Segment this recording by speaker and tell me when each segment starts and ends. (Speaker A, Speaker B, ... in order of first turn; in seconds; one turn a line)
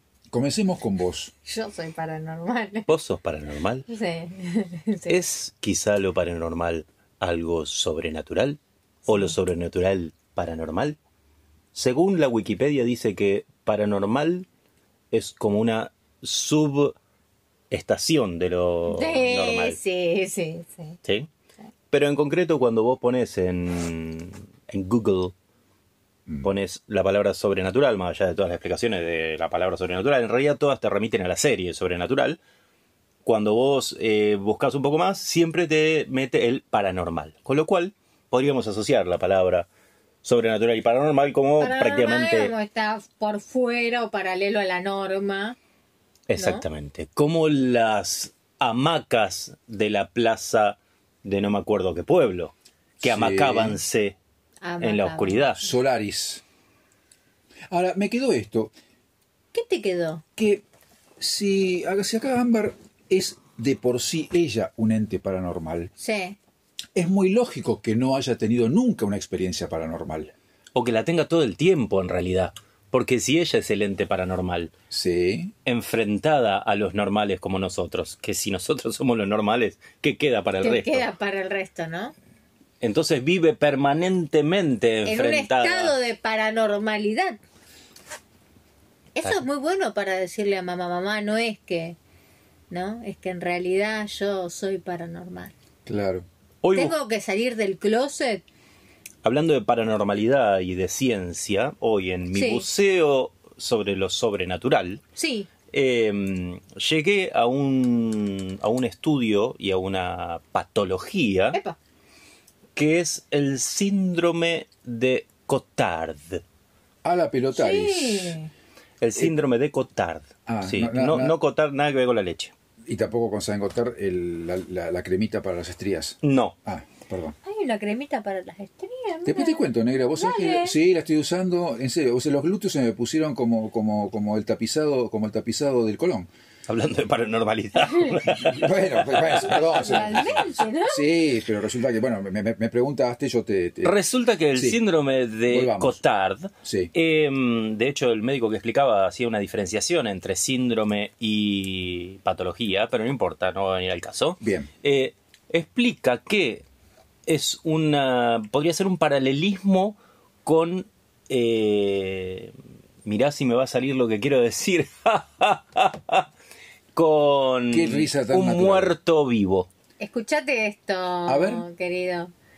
Speaker A: 0.3-1.3
Speaker B: 1.4-2.9
Speaker C: 2.9-3.9
Speaker B: 3.9-5.2
Speaker C: 5.1-11.0
Speaker C: 11.7-14.5
Speaker C: 15.1-17.0
Speaker C: 17.7-19.8
Speaker B: 18.9-21.0
Speaker C: 21.0-21.3
Speaker C: 21.9-25.3
Speaker C: 26.4-32.4
Speaker C: 33.2-39.7
Speaker C: 40.2-42.5
Speaker B: 41.6-45.6
Speaker C: 46.3-54.2
Speaker B: 46.4-46.7
Speaker A: 53.0-53.8
Speaker B: 54.6-55.7
Speaker C: 54.8-55.6
Speaker A: 55.6-56.4
Speaker A: 57.7-58.7
Speaker B: 59.5-60.2
Speaker A: 60.4-60.6
Speaker A: 61.2-65.9
Speaker B: 66.0-66.4
Speaker A: 67.0-70.3
Speaker C: 70.8-74.7
Speaker A: 74.9-75.5
Speaker C: 75.6-81.1
Speaker B: 80.6-82.1
Speaker C: 82.8-86.0
Speaker B: 85.0-87.4
Speaker B: 89.1-92.0
Speaker B: 92.7-95.5
Speaker A: 95.9-96.2
Speaker C: 96.6-97.0
Speaker B: 96.7-98.4
Speaker C: 99.2-105.0
Speaker B: 102.3-102.7
Speaker B: 105.2-105.5
Speaker C: 105.7-111.6
Speaker C: 112.8-116.4
Speaker A: 117.0-118.4
Speaker B: 117.5-118.5
Speaker C: 119.0-122.5
Speaker A: 120.5-121.4
Speaker A: 122.9-127.4
Speaker C: 126.2-126.5
Speaker B: 127.4-130.8
Speaker A: 129.2-136.3
Speaker C: 136.7-140.5
Speaker A: 138.2-144.0
Speaker B: 139.7-141.1
Speaker C: 143.8-156.7
Speaker A: 144.5-144.8
Speaker A: 145.5-146.0
Speaker A: 146.6-146.9
Speaker A: 154.4-154.7
Speaker C: 157.3-162.5
Speaker C: 163.0-166.3
Speaker C: 166.9-169.7
Speaker A: 167.7-168.9
Speaker B: 170.0-172.3
Speaker A: 171.2-171.6